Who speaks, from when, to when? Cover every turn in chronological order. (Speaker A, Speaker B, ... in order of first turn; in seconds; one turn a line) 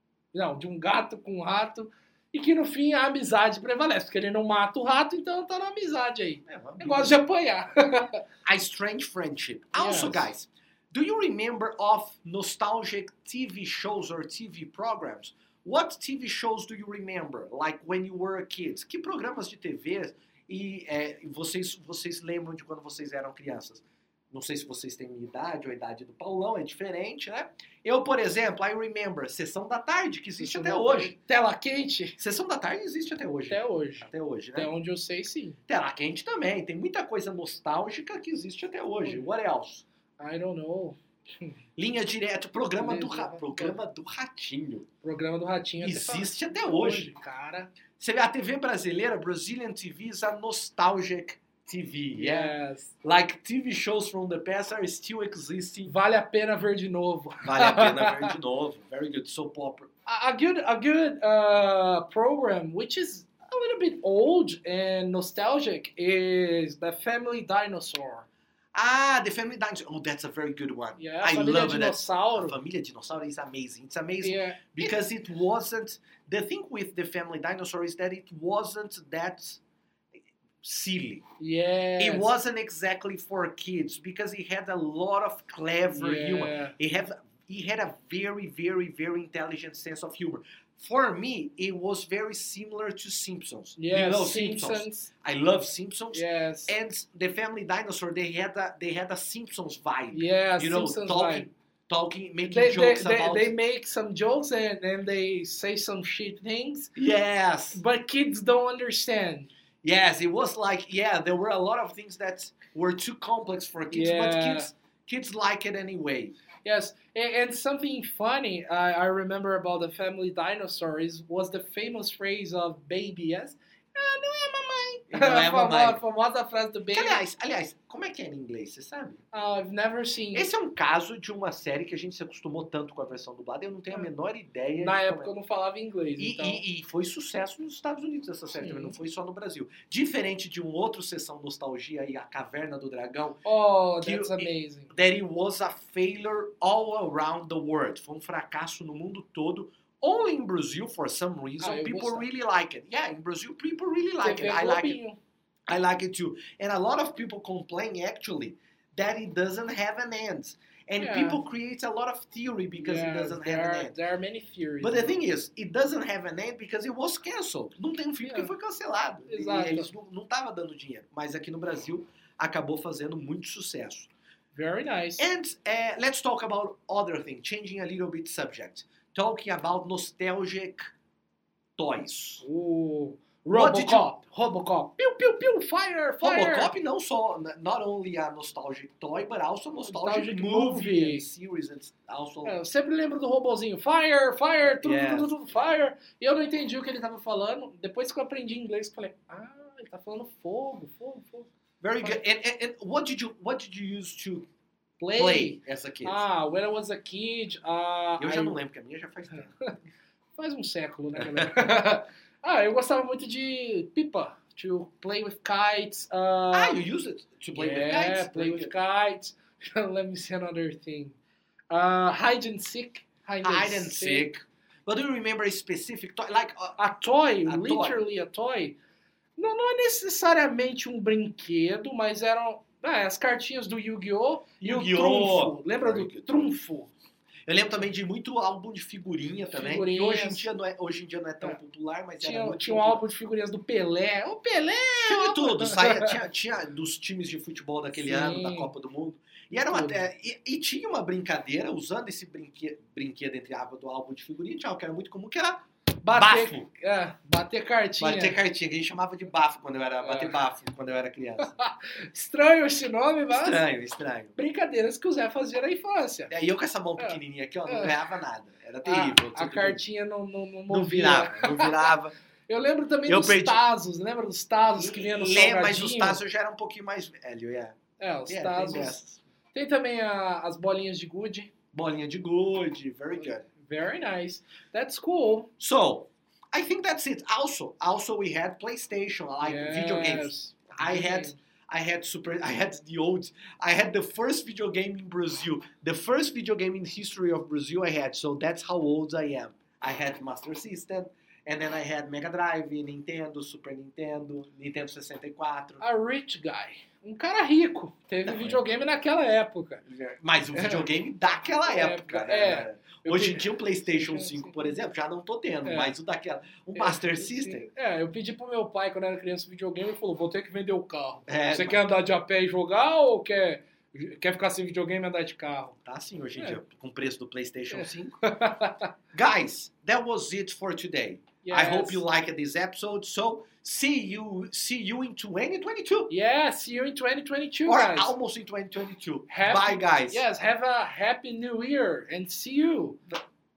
Speaker A: 0.3-8.2
Speaker B: 6.5-7.2
Speaker B: 8.4-31.1
Speaker A: 9.8-10.3
Speaker A: 30.4-32.2
Speaker B: 32.2-34.7
Speaker A: 33.5-35.6
Speaker B: 35.7-39.8
Speaker A: 39.0-39.3
Speaker A: 40.2-41.5
Speaker B: 41.8-44.9
Speaker A: 42.8-43.8
Speaker A: 45.0-47.7
Speaker B: 45.8-47.1
Speaker B: 48.0-55.9
Speaker A: 52.1-52.9
Speaker A: 55.9-58.3
Speaker B: 57.4-59.9
Speaker A: 60.1-68.3
Speaker B: 68.8-79.6
Speaker A: 71.0-72.6
Speaker A: 74.2-74.9
Speaker B: 80.6-81.2
Speaker A: 81.4-82.3
Speaker B: 82.0-103.5
Speaker A: 85.9-86.7
Speaker A: 93.8-95.1
Speaker A: 96.1-96.7
Speaker A: 100.1-101.5
Speaker A: 102.4-106.9
Speaker B: 106.9-107.8
Speaker A: 107.7-109.5
Speaker B: 109.8-116.4
Speaker A: 113.9-114.7
Speaker A: 116.6-127.2
Speaker B: 125.1-126.0
Speaker B: 126.9-129.2
Speaker A: 129.3-130.5
Speaker B: 130.3-135.3
Speaker A: 134.8-136.6
Speaker B: 136.2-143.4
Speaker A: 138.5-138.9
Speaker A: 143.4-144.9
Speaker B: 144.0-155.0
Speaker A: 151.6-152.2
Speaker A: 154.2-155.2
Speaker B: 155.7-164.0
Speaker A: 161.0-161.4
Speaker A: 162.8-165.2
Speaker B: 164.8-174.1
Speaker A: 168.2-168.5
Speaker A: 169.3-169.9
Speaker A: 174.5-175.2
Speaker B: 175.2-180.8
Speaker B: 181.8-182.4
Speaker A: 182.4-186.7
Speaker B: 183.5-184.1
Speaker B: 186.2-192.6
Speaker A: 189.8-191.3
Speaker A: 192.4-202.2
Speaker B: 194.6-195.8
Speaker B: 201.8-204.5
Speaker A: 205.0-208.6
Speaker B: 205.1-206.2
Speaker B: 208.2-209.8
Speaker A: 210.4-216.8
Speaker B: 211.2-211.7
Speaker B: 216.5-218.7
Speaker A: 217.6-221.2
Speaker A: 221.7-224.3
Speaker B: 223.4-226.8
Speaker A: 226.8-228.8
Speaker B: 227.4-228.0
Speaker A: 229.4-236.9
Speaker B: 234.6-236.3
Speaker B: 237.4-243.0
Speaker A: 239.5-240.5
Speaker A: 242.2-246.2
Speaker B: 245.0-256.7
Speaker A: 247.9-248.7
Speaker A: 249.5-250.0
Speaker A: 256.0-258.4
Speaker B: 258.0-261.5
Speaker A: 260.0-260.3
Speaker A: 261.4-263.6
Speaker B: 263.3-264.3
Speaker A: 264.4-266.3
Speaker B: 266.3-269.8
Speaker A: 267.0-268.0
Speaker A: 268.8-271.9
Speaker B: 270.7-272.1
Speaker A: 272.5-276.2
Speaker B: 273.1-273.6
Speaker B: 274.7-279.2
Speaker A: 278.0-279.0
Speaker A: 279.5-281.5
Speaker B: 281.7-283.4
Speaker A: 283.2-285.5
Speaker B: 285.6-305.8
Speaker A: 289.4-291.4
Speaker A: 305.8-309.8
Speaker B: 308.2-308.6
Speaker B: 309.8-317.7
Speaker A: 310.5-310.9
Speaker A: 311.6-314.7
Speaker A: 315.6-315.9
Speaker A: 316.7-325.7
Speaker B: 321.3-321.8
Speaker B: 325.8-328.2
Speaker A: 327.7-328.9
Speaker B: 329.1-336.1
Speaker A: 331.4-332.0
Speaker A: 336.1-338.1
Speaker B: 337.7-340.2
Speaker A: 339.3-343.0